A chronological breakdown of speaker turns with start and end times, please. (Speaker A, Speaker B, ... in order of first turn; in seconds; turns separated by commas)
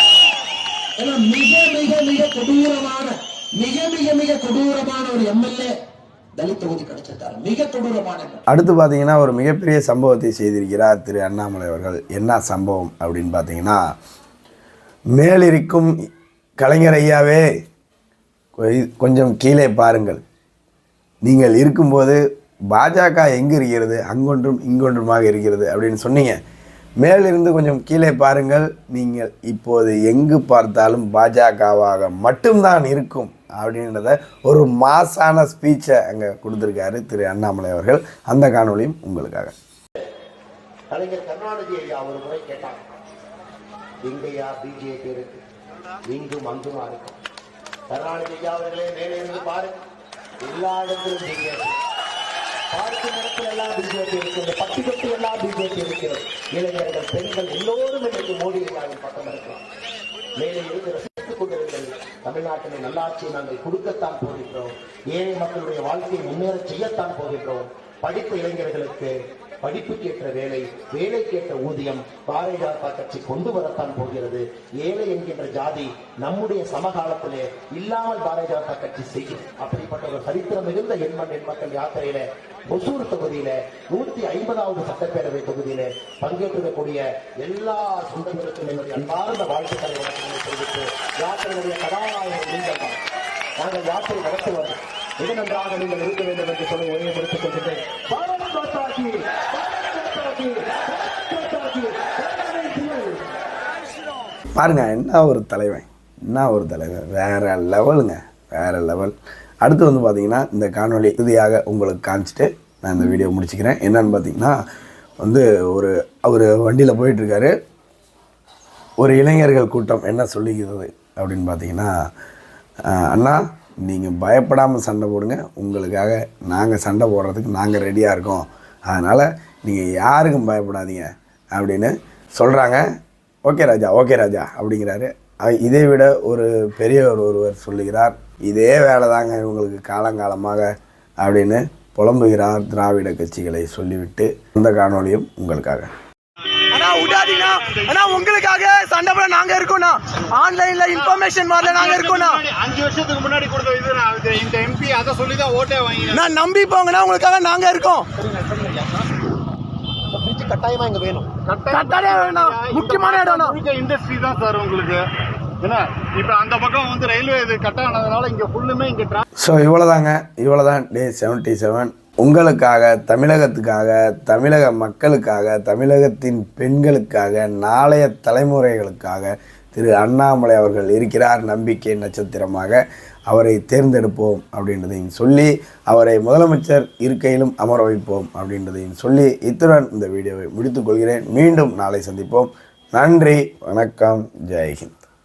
Speaker A: 1.0-5.7, Speaker A: 6.3-8.4, Speaker B: 8.5-13.8, Speaker B: 15.2-15.9, Speaker B: 16.6-17.5, Speaker B: 18.6-20.2, Speaker B: 21.2-22.2, Speaker B: 22.7-26.4, Speaker B: 27.0-39.5, Speaker C: 40.9-42.8, Speaker C: 44.0-45.4, Speaker C: 46.1-47.2, Speaker C: 47.9-49.8, Speaker C: 50.4-51.8, Speaker C: 52.7-59.6, Speaker C: 60.4-93.0, Speaker C: 93.6-103.2, Speaker B: 104.6-114.6, Speaker B: 115.2-117.5, Speaker B: 119.0-121.9, Speaker B: 122.9-132.8, Speaker B: 133.4-145.9, Speaker D: 146.7-148.3, Speaker E: 147.9-152.3, Speaker D: 150.9-156.3, Speaker E: 156.2-158.1, Speaker C: 158.3-158.7, Speaker C: 160.1-161.3, Speaker D: 161.4-165.1, Speaker E: 161.8-163.5, Speaker D: 165.6-169.2, Speaker B: 169.4-195.0